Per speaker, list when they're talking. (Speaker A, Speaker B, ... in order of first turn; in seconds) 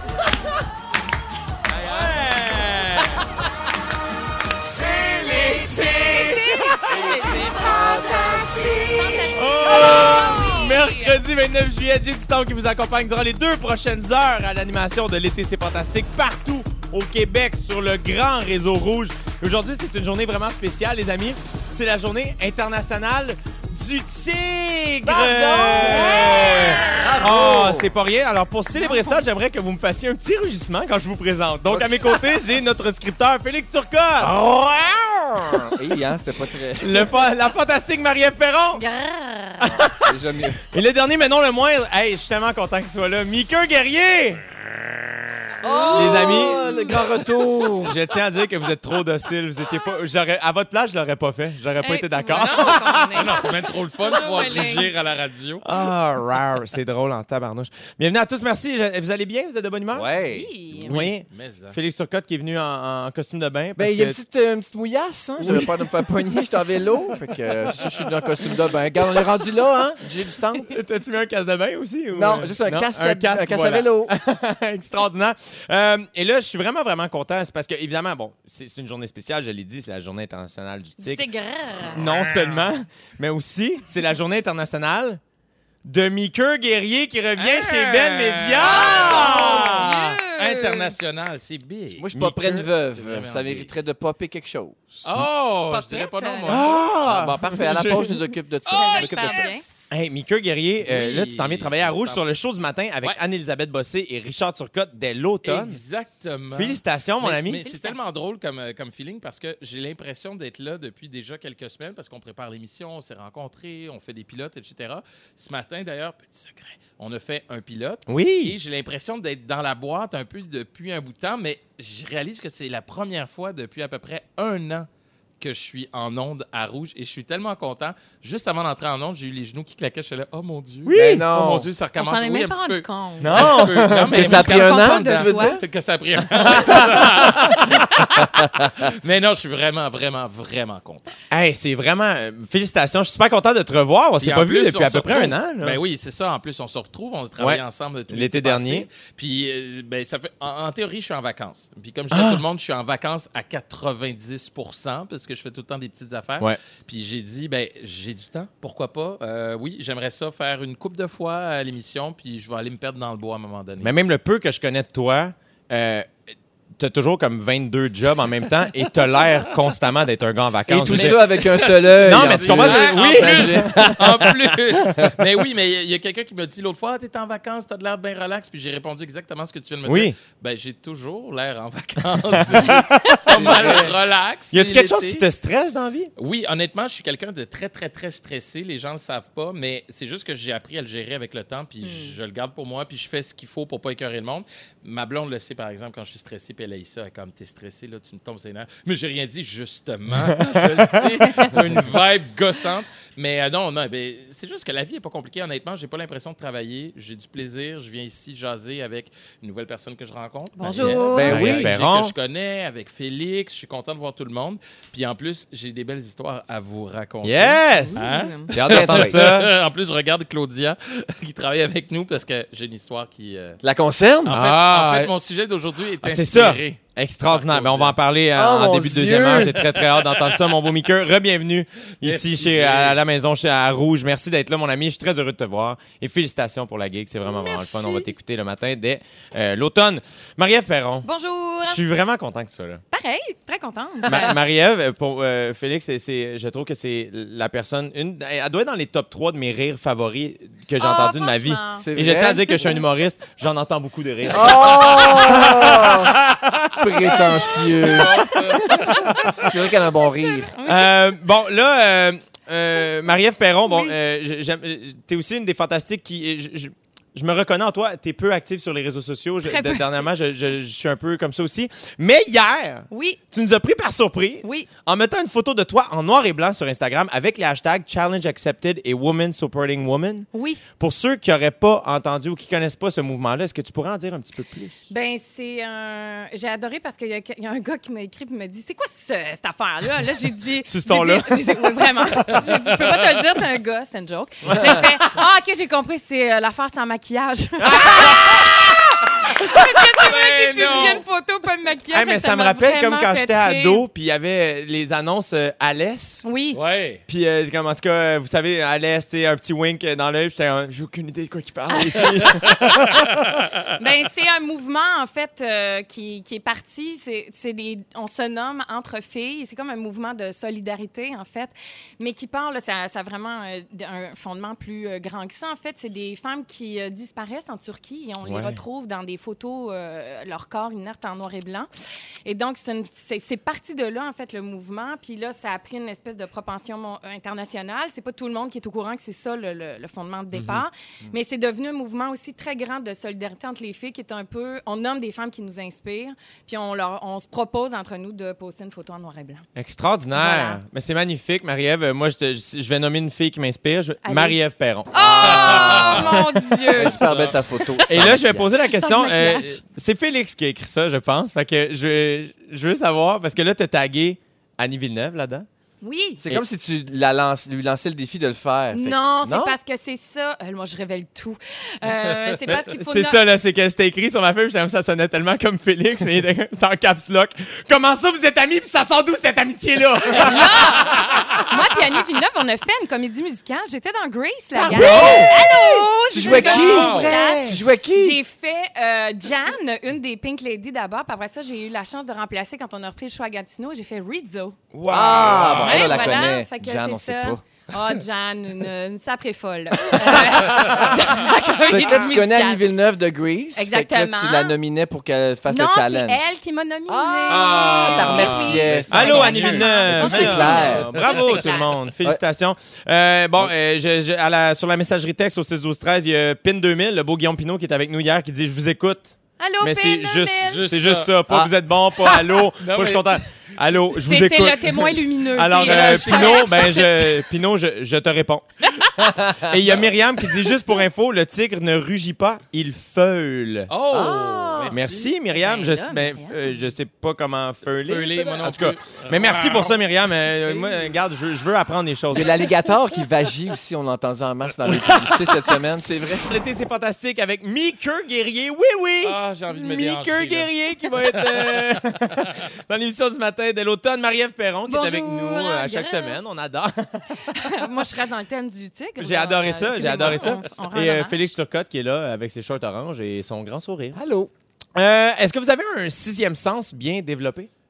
Speaker A: 1.7-3.2, 4.8-7.0, 9.3-35.7, 36.8-38.8, 39.6-40.1, 40.7-44.4, 45.9-47.0, 47.8-53.5, 55.6-60.1, 60.8-64.2, 65.4-65.7, 70.7-81.2, 81.9-85.2, 85.8-90.0, 92.1-92.7, 96.5-98.2, 99.9-105.8, 106.5-107.6, 118.1-118.6, 130.8-131.3, 133.2-134.4, 136.4-137.7, 141.3-145.8, 147.4-148.9, 152.1-152.4, 163.8-166.2, 166.8-174.5, 179.8-180.1, 182.4-183.9, 184.5-186.1, 200.2-201.6, 211.2-212.1, 217.2-219.5, 224.3-225.1, 226.0-241.1, 241.7-242.8, 244.1-257.4, 258.9-259.3, 260.6-280.3, 280.8-284.8, 290.6-291.4, 294.4-294.8, 297.6-298.9, 301.9-306.2, 307.1-313.1, 328.2-328.6, 349.6-356.1, 357.8-365.5, 372.4-381.2, 384.5-387.6, 394.7-396.2, 400.1-400.8, 407.3-433.7, 434.7-442.4, 446.2-457.4, 459.0-464.0, 464.8-467.5
Speaker B: 4.8-5.8, 6.9-9.3, 25.0-27.9, 31.7-32.2, 34.2-34.9, 35.7-37.1, 39.6-40.6, 45.6-48.0, 59.9-60.5, 63.8-70.7, 72.1-74.1, 88.9-89.7, 92.0-95.0, 97.0-99.6, 130.9-131.7, 134.1-135.6, 170.7-174.0, 183.3-183.9, 211.1-211.7, 218.7-219.2, 223.6-224.4, 228.3-229.6, 251.8-252.4, 254.3-256.1, 256.8-258.1, 259.3-260.5, 355.0-356.0, 356.7-358.5, 366.2-369.6, 384.7-385.3, 386.1-388.2, 394.9-397.4, 401.7-406.4, 406.9-411.0, 433.9-434.7, 442.1-446.3, 463.9-464.3
Speaker C: 5.6-11.2, 26.0-27.0, 28.7-29.2, 38.7-39.7, 45.6-47.0, 51.8-54.9, 60.2-61.0, 81.0-82.0, 88.8-90.9, 95.7-96.8, 98.7-99.9, 107.6-108.0, 132.0-133.4, 134.3-135.6, 182.9-183.2, 191.8-192.2, 210.6-211.3, 217.7-218.5, 237.2-238.1, 241.0-241.8, 242.9-244.4, 250.8-251.8, 260.5-260.9, 263.7-263.9, 269.4-269.9, 272.9-273.2, 274.4-274.7, 280.3-280.6, 284.9-298.6, 299.2-303.8, 306.2-306.6, 311.7-312.9, 313.8-331.7, 332.2-349.4, 350.1-350.6, 354.0-354.4, 354.9-357.0, 358.6-359.6, 365.8-366.2, 368.7-373.2, 380.2-394.6, 395.5-402.7, 403.5-404.5, 405.5-411.7, 419.4-420.6, 424.0-427.2, 435.3-436.6, 454.7-456.2, 457.2-461.3
Speaker D: 53.1-55.6, 60.8-61.8, 87.3-92.0, 92.9-93.7, 95.0-96.7, 100.8-102.2, 105.4-124.9, 125.4-141.1, 144.2-163.9, 170.8-185.2, 186.2-223.6, 224.2-228.0, 232.0-233.0, 257.8-259.1, 300.0-301.0, 306.5-307.0, 355.3-355.9, 356.8-357.4, 381.0-381.3, 386.5-387.1, 395.2-395.9, 408.4-409.5, 410.3-411.7, 420.5-421.1, 422.6-423.2, 425.6-426.7, 433.7-435.1, 437.7-441.0, 444.6-445.3, 449.0-452.3